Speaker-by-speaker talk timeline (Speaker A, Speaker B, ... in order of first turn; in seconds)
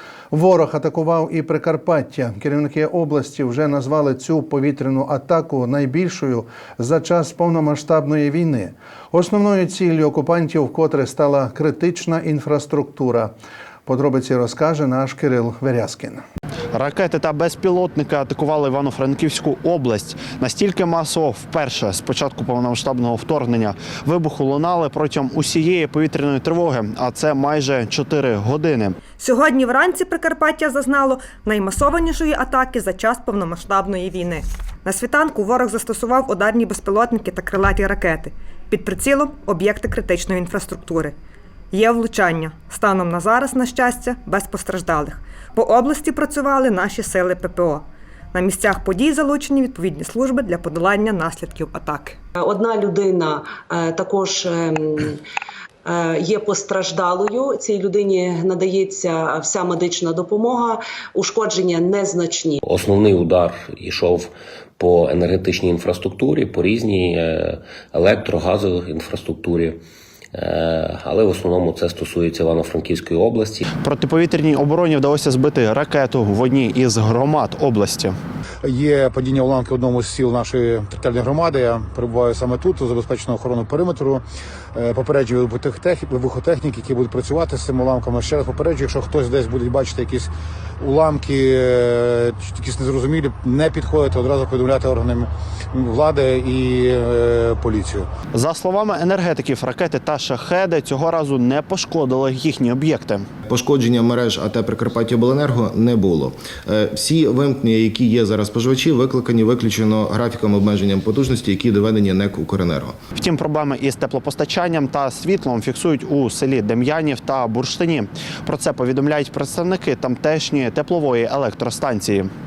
Speaker A: 0.3-13.3, 13.8-16.2
Speaker B: 16.7-29.0, 73.8-78.1, 98.3-103.2, 113.2-122.3
Speaker C: 29.2-41.1, 41.7-52.2
Speaker D: 52.4-55.2, 55.8-62.6
Speaker E: 62.6-69.8, 70.3-73.6
Speaker F: 78.6-84.2, 84.7-98.1
Speaker G: 103.5-113.0